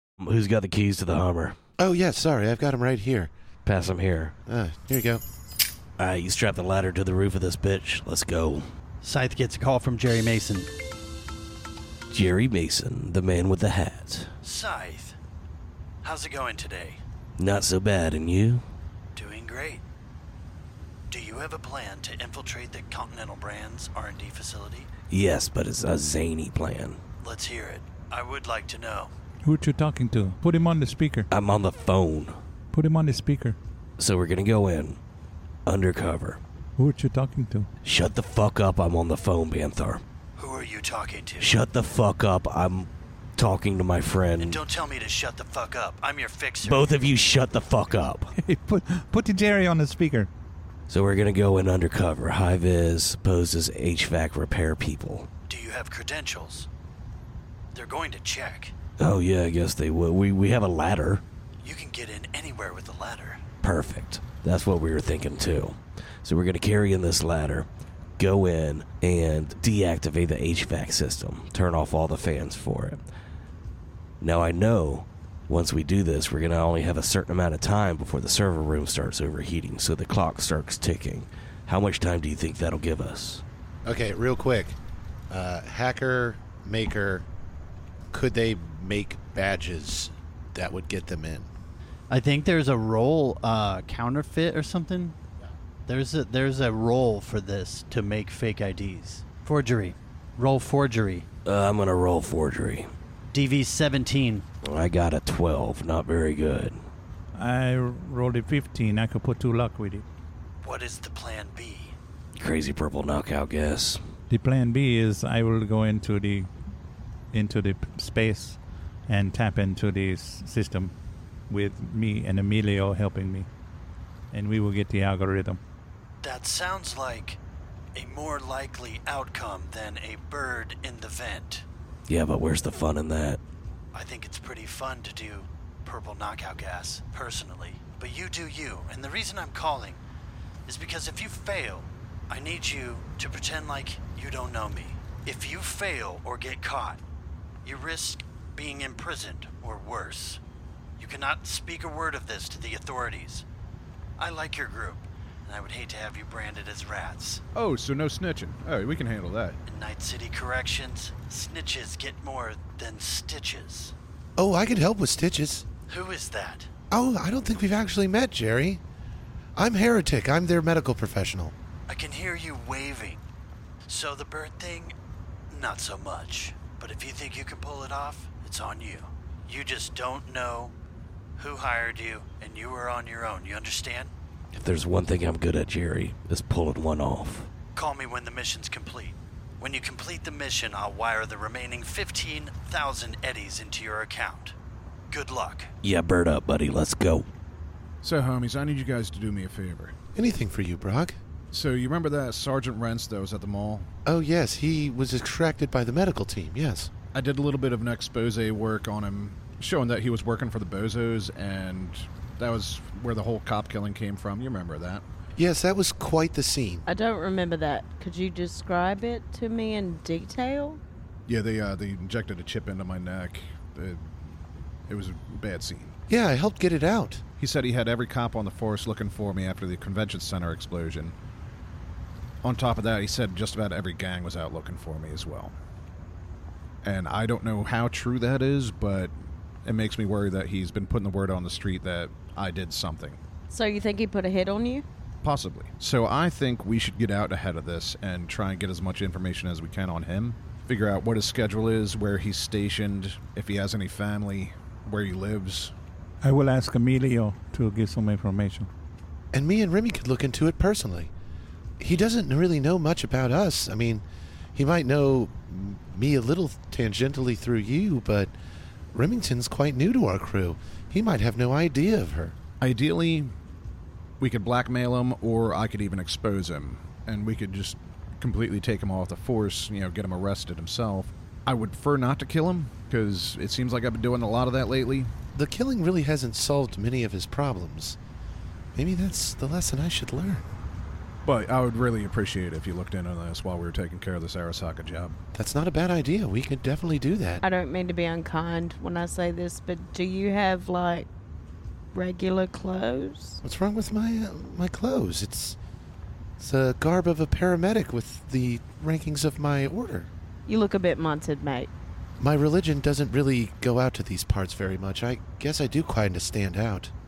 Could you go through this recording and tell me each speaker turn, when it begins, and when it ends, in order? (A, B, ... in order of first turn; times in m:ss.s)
0:00.2-0:01.6 A
0:01.8-0:03.3 B
0:03.6-0:04.4 A
0:04.5-0:05.2 B
0:06.0-0:08.7 A
0:09.0-0:10.7 C
0:12.1-0:14.3 A
0:14.4-0:15.2 C
0:16.0-0:17.0 C
0:17.4-0:18.6 A
0:19.2-0:19.8 C
0:21.1-0:24.9 C
0:25.1-0:27.0 A
0:27.2-0:29.1 C
0:29.4-0:31.3 D
0:31.3-0:32.4 A
0:32.7-0:33.6 D
0:34.0-0:35.0 A
0:35.7-0:36.4 A
0:36.8-0:37.7 D
0:37.8-0:40.0 A
0:40.4-0:41.5 C
0:41.4-0:44.6 A
0:44.4-0:46.9 C
0:46.6-0:48.3 A
0:48.4-0:50.3 D
0:50.9-0:55.3 A
0:55.5-0:56.7 C
0:57.7-0:58.7 C
0:59.0-1:01.2 A
1:01.6-1:03.4 C
1:03.6-1:13.0 A
1:14.2-1:23.4 A
1:23.8-1:24.8 B
1:25.3-1:27.3 B
1:28.1-1:31.5 B
1:32.1-1:35.2 C
1:35.9-1:41.3 C
1:41.4-1:42.9 A
1:43.3-1:44.4 C
1:44.6-1:46.8 A
1:47.4-1:50.0 D
1:50.6-1:52.0 C
1:52.4-1:54.0 A
1:54.3-1:56.5 D
1:57.3-2:00.9 D
2:01.5-2:03.5 D
2:04.3-2:05.6 D
2:06.2-2:07.4 C
2:08.0-2:11.7 C
2:12.1-2:13.4 A
2:13.9-2:20.0 C
2:20.7-2:27.0 C
2:27.6-2:30.4 C
2:31.0-2:33.4 C
2:34.2-2:37.4 C
2:37.5-2:39.6 E
2:39.7-2:43.9 C
2:44.4-2:45.7 B
2:45.9-2:46.7 C
2:46.9-2:48.8 B
2:49.6-2:51.5 B
2:51.9-2:53.2 C
2:53.9-2:54.9 C
2:55.5-3:00.7 C
3:01.4-3:04.1 C
3:04.5-3:07.5 A
3:07.8-3:14.6 C
3:15.1-3:15.7 C
3:15.8-3:17.3 A
3:18.0-3:20.0 E
3:20.2-3:21.2 B
3:21.5-3:23.9 E
3:24.0-3:26.9 B
3:27.1-3:35.0 E
3:35.4-3:36.8 B
3:36.9-3:40.8 F
3:41.3-3:44.3 E
3:44.9-3:46.0 E
3:46.1-3:47.2 B
3:47.4-3:51.2 E
3:52.4-3:55.5 E
3:56.8-3:59.1 E
3:59.6-4:03.2 E
4:03.5-4:04.8 F
4:05.2-4:15.7 E
4:16.2-4:18.7 D
4:19.3-4:21.1 B
4:21.8-4:24.0 B
4:24.6-4:28.3 B
4:28.9-4:32.4 B
4:32.6-4:33.3 E
4:34.2-4:45.1 E
4:45.4-4:48.0 B
4:48.7-4:50.4 B
4:51.2-4:55.2 E
4:55.3-4:57.4 B
4:57.4-5:01.1 F
5:01.9-5:03.4 F
5:03.4-5:05.6 B
5:06.4-5:10.1 B
5:10.5-5:11.7 F
5:12.2-5:16.9 B